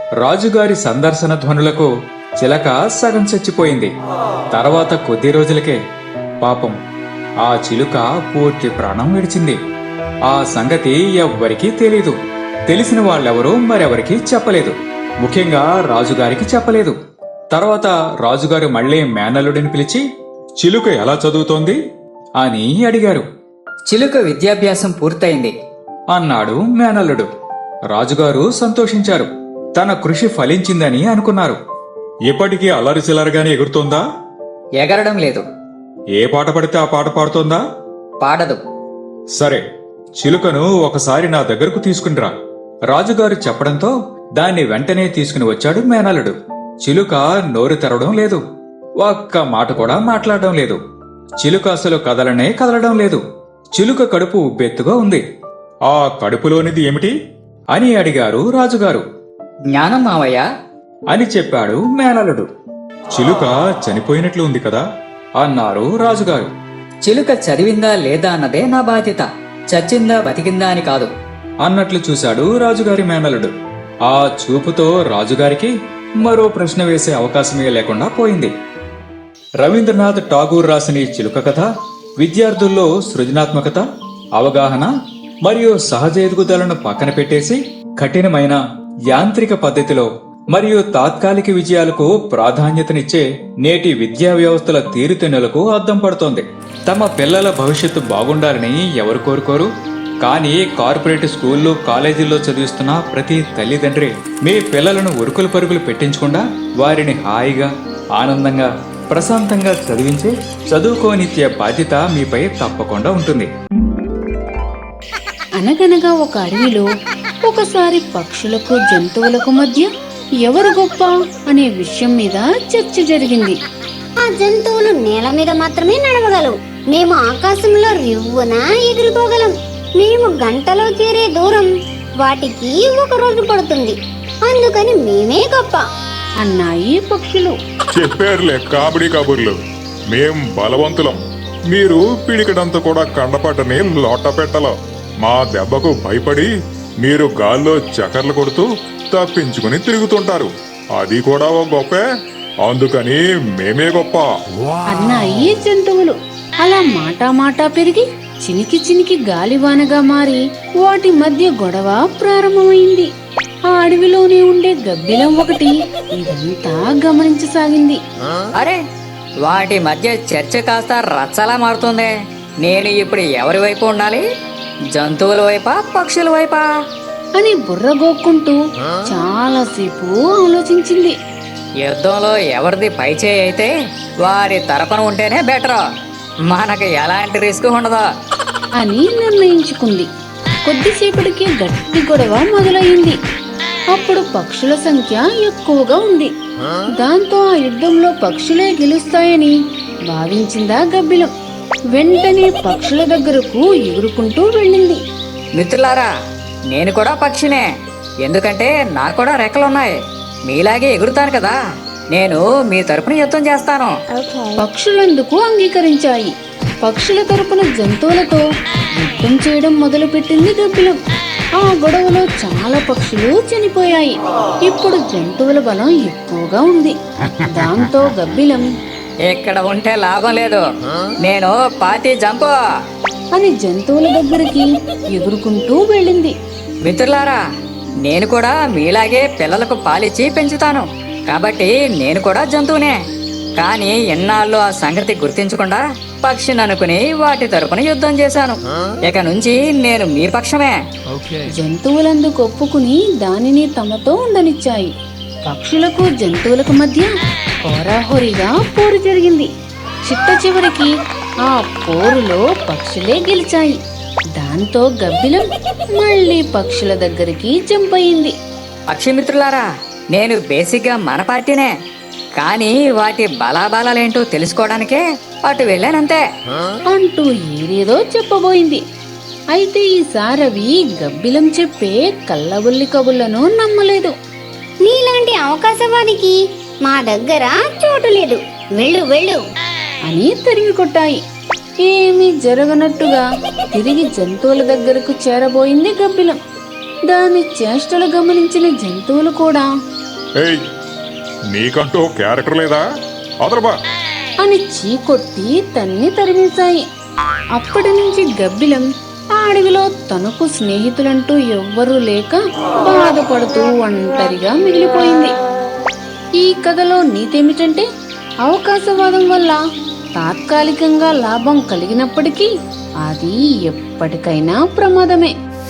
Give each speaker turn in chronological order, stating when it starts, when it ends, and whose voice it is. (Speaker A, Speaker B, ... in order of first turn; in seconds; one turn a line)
Speaker A: 0.2-3.9
Speaker A: 4.5-5.8
Speaker A: 6.4-6.8
Speaker A: 7.4-9.6
Speaker A: 10.3-16.9
Speaker A: 17.5-20.0
Speaker A: 20.6-21.8
Speaker A: 22.4-23.2
Speaker B: 23.9-25.5
Speaker A: 26.1-27.3
Speaker A: 27.9-31.6
Speaker A: 32.3-34.0
Speaker B: 34.8-35.4
Speaker A: 36.1-37.6
Speaker B: 38.2-38.6
Speaker A: 39.3-39.6
Speaker A: 40.2-42.3
Speaker A: 42.9-48.4
Speaker A: 49.0-50.8
Speaker A: 51.4-53.2
Speaker A: 53.8-55.2
Speaker A: 55.9-57.1
Speaker A: 57.7-59.0
Speaker B: 59.7-60.5
Speaker A: 61.1-62.5
Speaker A: 63.1-64.8
Speaker A: 65.4-66.5
Speaker B: 67.0-71.1
Speaker A: 71.6-73.5
Speaker A: 74.0-78.5
Speaker A: 79.6-81.7
Speaker A: 82.2-84.9
Speaker A: 85.4-99.7
Speaker A: 100.2-113.5
Speaker C: 115.6-116.8
Speaker C: 117.4-119.9
Speaker C: 120.4-123.6
Speaker D: 124.2-131.7
Speaker D: 132.2-135.8
Speaker C: 136.4-137.6
Speaker E: 137.9-139.6
Speaker E: 140.1-146.5
Speaker E: 147.0-152.0
Speaker E: 152.7-154.3
Speaker C: 154.9-163.1
Speaker C: 163.7-168.0
Speaker B: 168.6-168.8
Speaker B: 169.4-172.1
Speaker B: 172.6-174.2
Speaker B: 174.9-176.7
Speaker C: 177.4-181.2
Speaker B: 181.8-183.7
Speaker B: 184.2-185.8
Speaker B: 186.5-188.1
Speaker C: 188.8-190.1
Speaker C: 190.6-193.2
Speaker C: 193.9-196.3
Speaker C: 196.9-199.5
Speaker C: 200.1-201.3
Speaker C: 201.9-205.0
Speaker B: 205.6-206.1
Speaker B: 206.7-207.6
Speaker B: 208.2-211.6
Speaker B: 212.1-213.9
Speaker C: 214.6-218.4
Speaker C: 219.0-221.0
Speaker C: 221.6-228.7
Speaker B: 229.3-230.6
Speaker B: 231.2-232.5
Speaker C: 233.3-236.4
Speaker B: 236.8-237.4
Speaker B: 238.0-243.0
Speaker B: 243.6-250.8
Speaker C: 251.5-254.9
Speaker C: 255.4-257.1
Speaker C: 257.7-259.5
Speaker C: 260.0-260.9
Speaker C: 261.4-263.8
Speaker C: 264.4-268.3
Speaker B: 268.9-271.7
Speaker B: 272.4-276.2
Speaker C: 276.9-278.8
Speaker C: 279.5-284.1
Speaker D: 284.9-289.4
Speaker C: 290.1-291.2
Speaker C: 291.8-296.4
Speaker C: 297.1-299.7
Speaker E: 301.5-302.8
Speaker E: 303.4-303.8
Speaker C: 304.4-306.8
Speaker C: 307.5-315.4
Speaker C: 316.4-317.9
Speaker C: 318.4-319.6
Speaker C: 320.1-322.5
Speaker C: 323.0-325.3